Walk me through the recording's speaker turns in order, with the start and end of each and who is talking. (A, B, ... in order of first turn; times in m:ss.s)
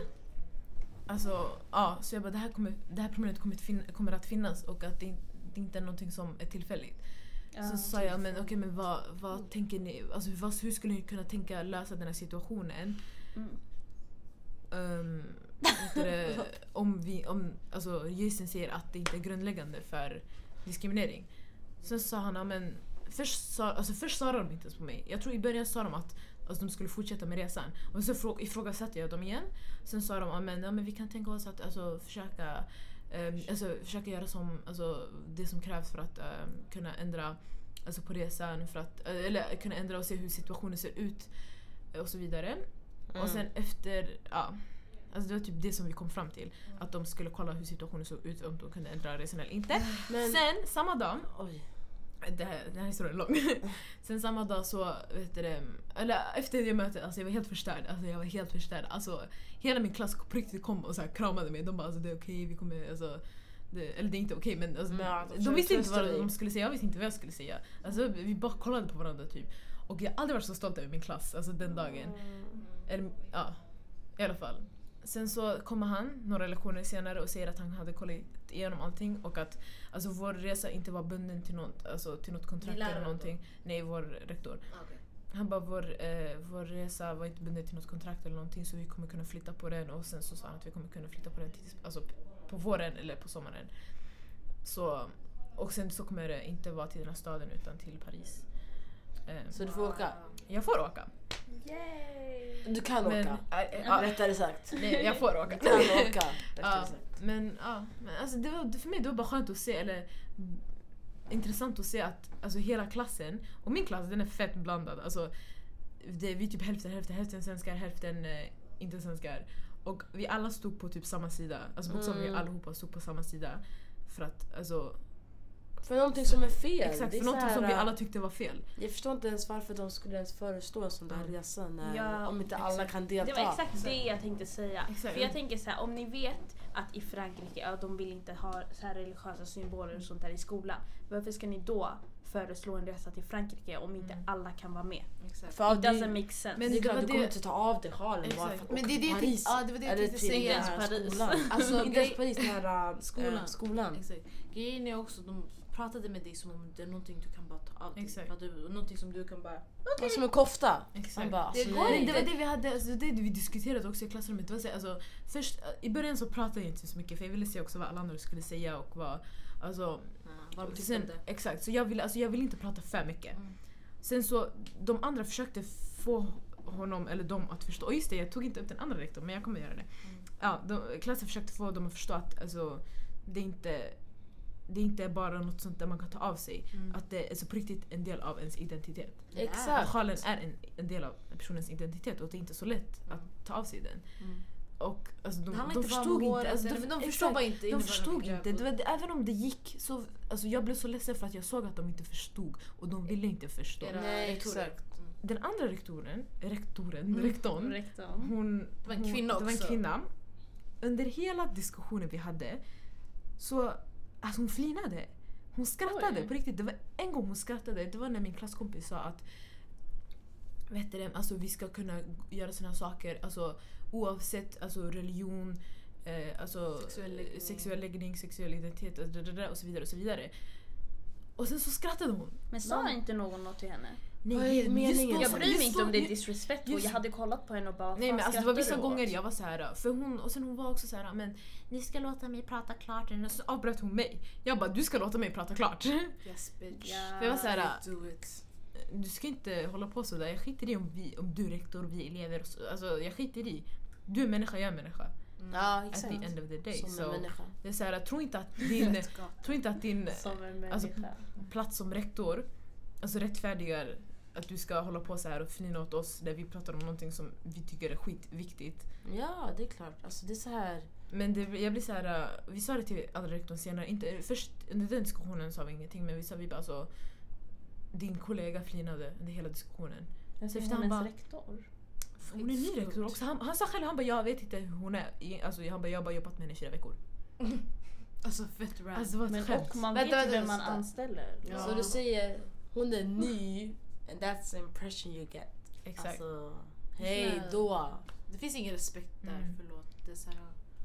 0:01.0-0:13.2 A
0:07.5-0:08.2 B
0:08.0-0:08.5 C
0:13.3-0:13.6 B
0:14.7-0:51.4 A
0:43.1-0:43.5 C
0:50.0-0:50.4 C
0:51.3-0:51.7 C
0:52.2-1:39.7 A
1:04.9-1:06.3 C
1:11.6-1:12.6 C
1:12.6-1:12.8 D
1:22.6-1:23.4 D
1:24.7-1:25.0 D
1:39.5-1:40.2 C
1:39.6-1:40.4 D
1:40.4-1:41.1 A
1:41.5-1:42.6 B
1:42.6-1:47.1 C
1:43.0-2:05.6 A
1:43.8-1:44.9 B
2:01.9-2:02.5 C
2:05.8-2:08.0 C
2:06.2-2:08.6 A
2:08.8-2:13.6 C
2:11.1-2:11.4 A
2:11.8-2:26.8 B
2:14.9-2:15.3 A
2:24.0-2:24.2 A
2:25.2-2:25.6 D
2:25.5-2:34.0 C
2:26.6-2:27.3 A
2:28.2-2:40.3 D
2:30.3-2:31.8 B
2:38.0-2:38.3 A
2:40.0-2:42.3 C
2:40.9-3:24.2 A
2:41.2-2:42.3 D
2:50.2-2:51.3 D
2:53.3-2:53.6 D
3:06.7-3:07.0 D
3:09.3-3:10.0 C
3:09.4-3:09.9 D
3:13.0-3:14.5 D
3:15.5-3:18.8 D
3:23.8-3:25.2 D
3:23.9-3:24.8 C
3:25.2-3:39.6 A
3:27.1-3:27.4 D
3:27.5-3:28.3 B
3:28.8-3:29.8 D
3:35.8-3:36.3 D
3:40.7-3:50.8 A
3:46.8-3:47.8 D
3:51.3-3:53.0 A
3:52.5-3:54.0 B
3:54.2-3:57.0 A
3:54.3-3:55.6 C
3:55.2-3:59.1 B
3:58.0-4:06.3 A
4:06.2-4:08.4 D
4:06.8-4:07.6 B
4:07.2-4:28.9 A
4:15.4-4:15.7 D
4:15.5-4:17.5 C
4:18.8-4:19.7 D
4:20.2-4:21.2 B
4:29.0-4:30.9 C
4:31.1-4:41.6 A
4:40.4-4:41.7 B
4:42.2-4:43.2 D
4:42.2-4:47.0 A
4:48.2-4:49.2 D
4:48.9-4:49.8 A
4:49.3-4:51.9 B
4:49.9-4:50.8 D
4:51.4-4:52.0 D
4:51.5-4:58.0 C
4:51.5-4:51.8 A
4:55.8-4:56.2 A
4:57.0-5:00.6 D
4:59.2-4:59.6 A